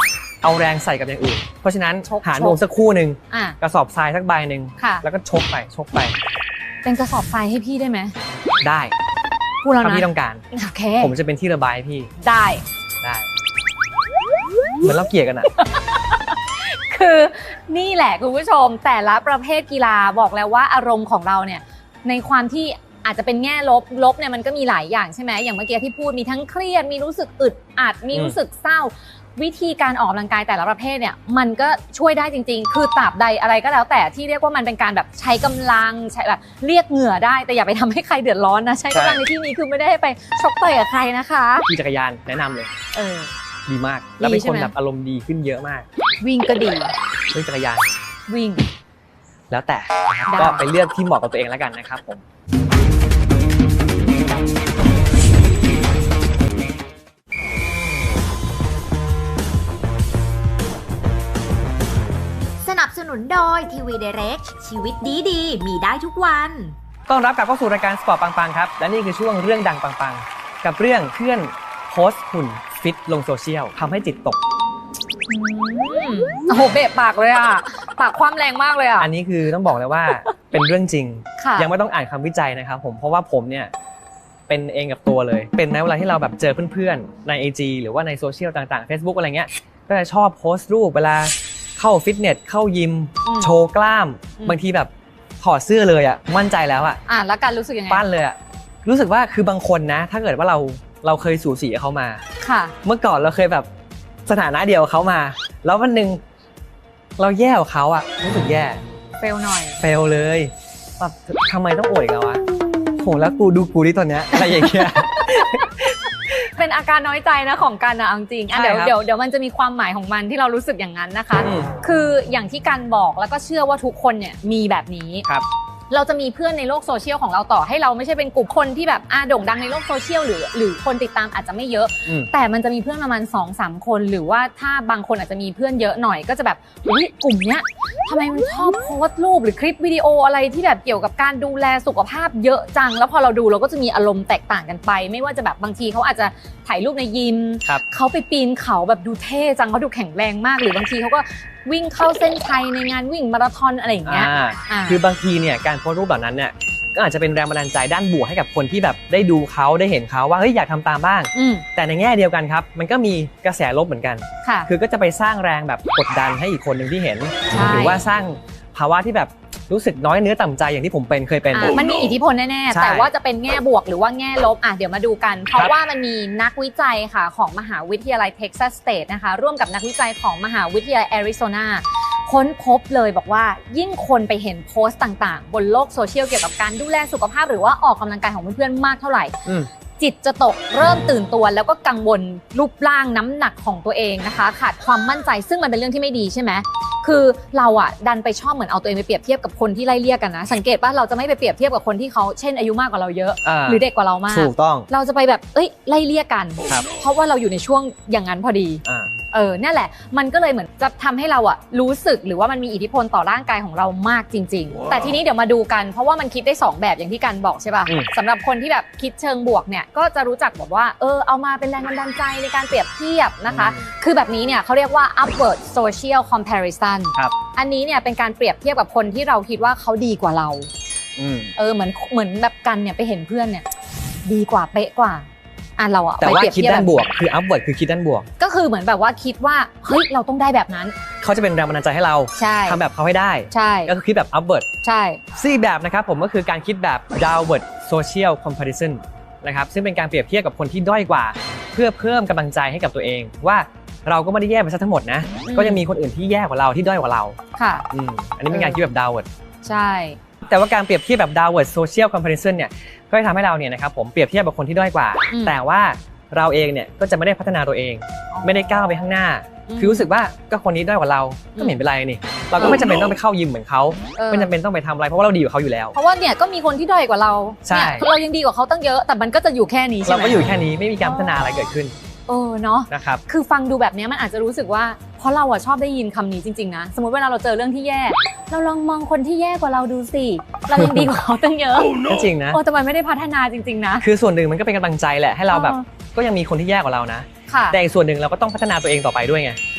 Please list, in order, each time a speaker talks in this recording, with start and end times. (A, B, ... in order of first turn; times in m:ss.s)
0:00.4-0:06.2 A
0:02.0-0:02.6 B
0:03.3-0:03.6 B
0:04.8-0:05.0 B
0:06.8-0:08.1 B
0:08.6-0:08.9 A
0:09.6-0:11.1 B
0:09.8-0:10.4 A
0:11.0-0:12.1 A
0:12.2-0:12.6 B
0:13.0-0:13.3 A
0:14.8-0:15.5 A
0:15.6-0:41.6 B
0:38.9-0:39.2 A
0:41.7-0:42.7 A
0:42.9-0:43.3 B
0:43.7-0:45.9 A
0:44.2-0:44.7 B
0:46.2-0:46.9 B
0:47.3-0:47.9 A
0:48.3-0:48.6 B
0:49.5-0:52.2 A
0:50.3-0:50.6 B
1:02.6-1:06.7 C
1:07.1-1:14.4 A
1:15.3-1:19.1 B
1:19.0-1:23.7 A
1:21.4-1:21.7 B
1:24.5-1:34.9 A
1:33.2-1:33.5 B
1:35.4-1:37.0 A
1:37.1-1:38.0 B
1:37.9-1:42.2 A
1:42.4-1:42.7 B
1:42.8-1:43.7 A
1:44.3-1:46.2 A
1:47.2-1:48.8 A
1:49.2-1:49.8 B
1:49.8-1:52.4 A
1:53.0-1:56.0 A
1:56.6-2:05.2 B
1:58.5-1:58.9 A
2:01.4-2:01.7 A
2:05.9-2:35.0 B
2:34.0-2:51.8 A
2:41.3-2:41.6 B
2:44.4-2:44.7 B
2:47.5-2:48.0 B
2:51.5-3:09.4 B
2:52.7-2:53.1 A
3:10.0-3:50.7 B
3:23.4-3:24.9 A
3:28.8-3:29.1 A
3:43.5-3:43.9 A
3:51.2-3:51.5 A
3:51.6-3:53.6 B
3:54.2-3:57.0 B
3:56.2-3:58.3 A
3:58.4-4:00.9 B
4:01.2-4:04.6 A
4:02.4-4:02.8 B
4:03.5-4:03.9 B
4:04.8-4:05.2 B
4:05.4-4:17.4 A
4:15.4-4:15.8 B
4:17.6-4:17.8 B
4:17.9-4:19.3 A
4:18.5-4:18.8 B
4:19.6-4:20.2 B
4:20.4-4:35.9 A
4:25.3-4:25.6 B
4:28.3-4:28.8 B
4:29.7-4:30.1 B
4:32.6-4:32.9 B
4:34.2-4:34.5 B
4:35.9-4:40.4 B
4:37.6-4:38.1 A
4:40.0-4:41.9 A
4:41.0-4:41.5 B
4:42.3-4:52.0 B
4:42.9-4:43.2 A
4:50.8-4:51.1 A
4:52.0-4:52.6 A
4:52.5-4:54.0 B
4:54.0-4:59.6 A
4:55.5-4:55.8 B
4:57.5-4:57.8 B